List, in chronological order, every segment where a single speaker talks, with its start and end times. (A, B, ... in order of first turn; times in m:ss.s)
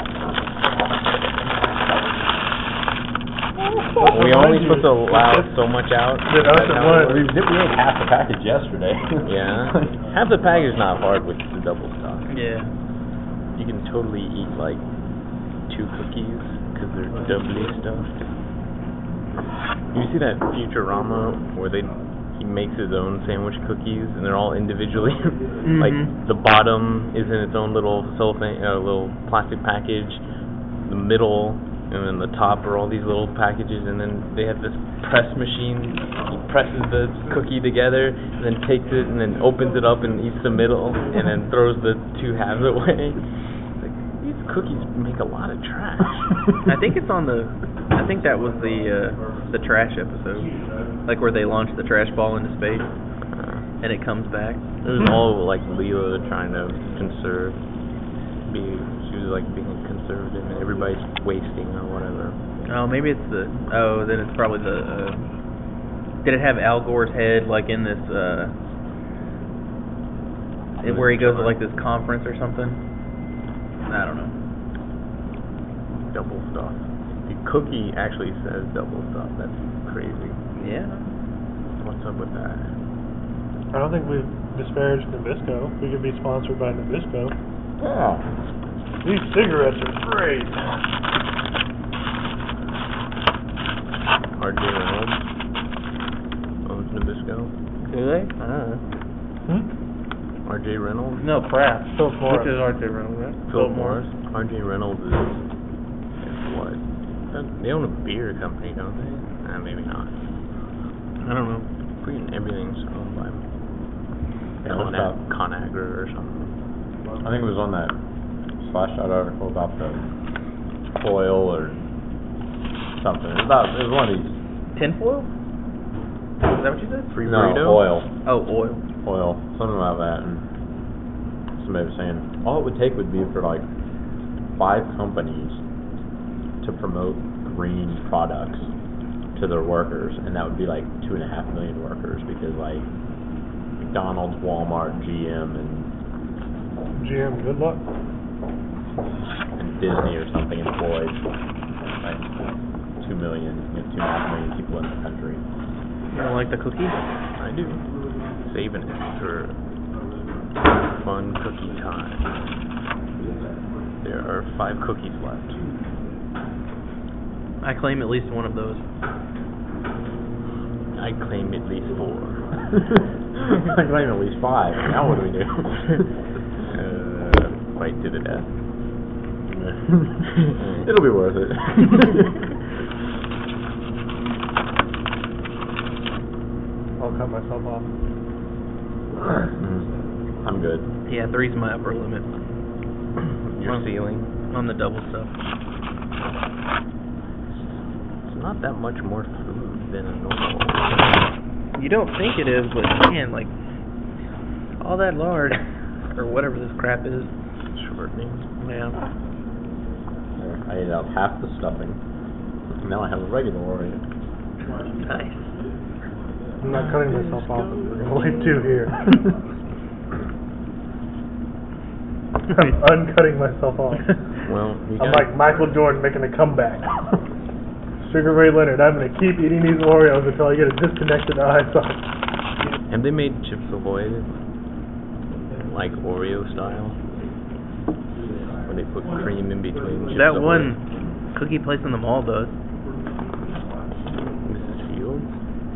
0:03.9-0:05.6 A
0:04.0-0:07.2 B
0:06.2-0:07.3 A
0:06.5-0:10.0 C
0:09.2-0:12.3 B
0:12.3-0:12.7 D
0:13.5-0:14.8 B
0:15.7-0:18.3 B
0:19.9-0:30.2 B
0:25.6-0:26.1 D
0:30.8-0:43.2 B
0:43.8-0:46.5 B
0:46.6-0:50.5 D
0:51.0-0:52.9 D
0:53.3-0:53.6 B
0:53.8-0:54.8 D
0:54.8-0:57.6 B
0:58.4-1:02.4 B
1:02.6-1:05.2 D
1:06.2-1:08.5 D
1:10.8-1:11.6 B
1:10.8-1:12.8 D
1:13.9-1:14.3 D
1:16.1-1:20.4 B
1:20.6-1:21.1 D
1:21.8-1:22.7 B
1:23.7-1:27.3 A
1:27.8-1:28.2 C
1:29.0-1:30.7 A
1:34.4-1:35.2 B
1:36.6-1:37.5 B
1:37.8-1:38.4 D
1:38.4-1:38.8 B
1:40.4-1:41.2 B
1:41.2-1:44.0 D
1:41.9-1:42.5 A
1:43.5-1:45.4 B
1:46.2-1:50.1 B
1:51.2-1:53.4 B
1:54.6-1:55.2 C
1:54.6-1:56.5 B
1:57.2-1:58.0 C
1:58.6-2:00.1 C
2:00.9-2:01.8 C
2:02.9-2:04.4 C
2:04.7-2:05.3 D
2:06.4-2:07.2 D
2:07.1-2:07.9 B
2:07.2-2:08.1 C
2:08.2-2:08.8 D
2:09.0-2:10.4 C
2:11.6-2:13.6 C
2:14.6-2:15.6 C
2:16.6-2:18.7 C
2:19.3-2:22.8 C
2:23.8-2:25.9 C
2:27.0-2:27.8 A
2:29.6-2:31.2 C
2:31.9-2:32.3 C
2:33.0-2:35.4 C
2:36.1-2:37.0 D
2:37.4-2:37.8 B
2:38.4-2:39.6 B
2:40.8-2:42.3 B
2:44.0-2:45.6 B
2:47.6-2:48.8 D
2:51.0-2:52.6 B
2:53.4-2:56.1 C
2:56.7-2:58.5 B
2:59.5-3:00.2 C
3:00.3-3:00.9 B
3:00.8-3:02.5 C
3:07.0-3:07.9 A
3:09.6-3:09.9 C
3:10.4-3:10.9 C
3:11.1-3:12.3 D
3:13.2-3:14.3 B
3:14.5-3:15.3 D
3:18.2-3:21.2 B
3:21.7-3:23.5 D
3:24.8-3:25.6 D
3:26.1-3:27.3 D
3:27.7-3:28.5 B
3:28.6-3:29.0 D
3:30.4-3:32.0 C
3:32.8-3:34.0 C
3:35.0-3:35.5 D
3:36.6-3:39.3 A
3:36.7-3:38.6 B
3:42.5-3:44.1 A
3:44.4-3:45.3 B
3:45.0-3:46.9 A
3:48.0-3:52.1 A
3:52.9-3:54.4 B
3:55.6-3:57.0 B
3:58.6-4:00.7 B
4:00.1-4:00.8 D
4:01.3-4:02.6 D
4:04.4-4:05.3 B